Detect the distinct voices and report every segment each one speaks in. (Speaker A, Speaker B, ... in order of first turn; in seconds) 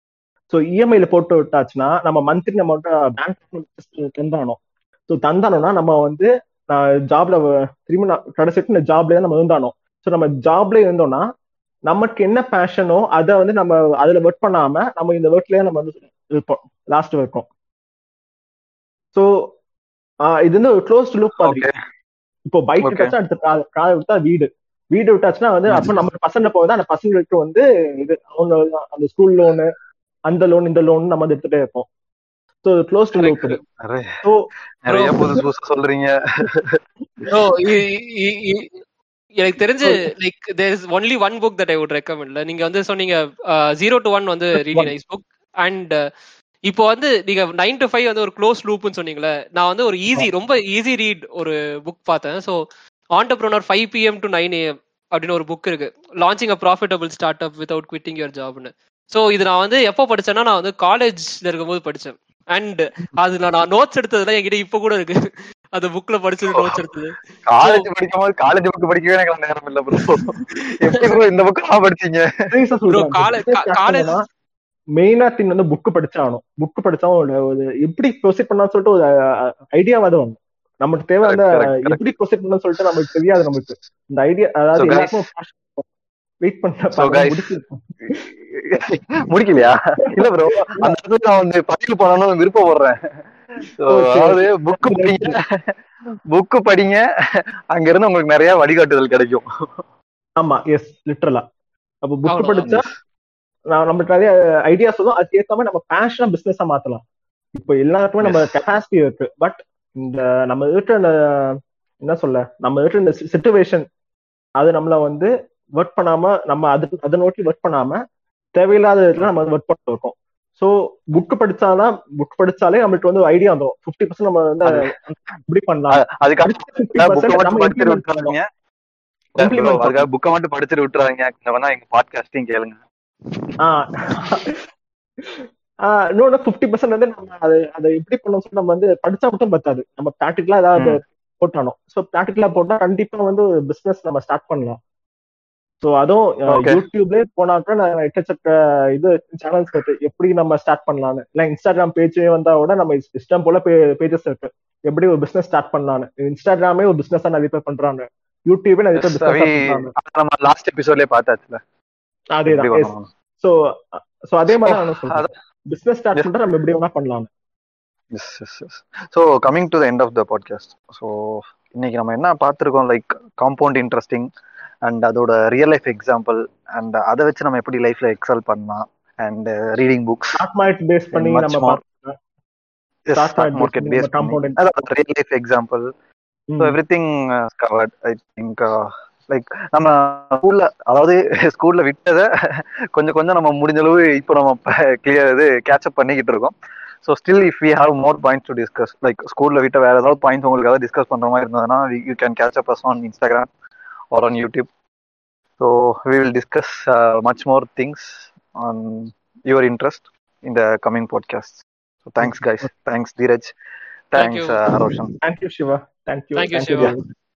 Speaker A: 0.5-11.2, 11.9-17.5, 19.1-19.4, 20.3-21.6, 22.5-29.7, 30.3-31.9, 32.6-33.6, 72.5-74.2, 75.0-85.8, 86.4-87.8, 93.9-95.3, 100.4-101.4, 102.0-102.8, 103.7-107.0, 107.5-113.8, 114.6-118.0, 118.5-128.3, 129.4-130.1, 133.6-134.5, 135.2-144.8, 145.8-159.9, 162.3-167.3, 180.3-182.2, 183.1-184.6, 186.5-186.8, 212.2-212.7, 215.2-217.0
Speaker B: 21.4-21.7, 22.8-23.1, 33.8-34.2, 34.9-36.8, 67.5-72.3, 81.2-82.0, 84.8-85.1, 87.0-87.4, 88.1-93.0, 93.8-95.7, 96.3-97.0, 97.7-99.4, 108.2-108.5, 124.6-124.9, 125.9-128.5, 129.3-132.8, 146.5-146.8, 159.0-161.6, 162.5-163.1, 164.6-165.3, 168.1-174.3, 174.8-180.4, 181.1-181.8, 183.1-185.9, 186.6-196.5, 197.0-203.5, 204.1-204.7, 205.6-213.5, 214.1-215.1
Speaker C: 33.2-33.6, 34.9-35.4, 37.3-38.8, 39.4-46.0, 46.7-52.6, 53.1-65.2, 65.7-67.8, 72.9-74.2, 102.3-102.7, 214.2-214.6, 216.3-216.9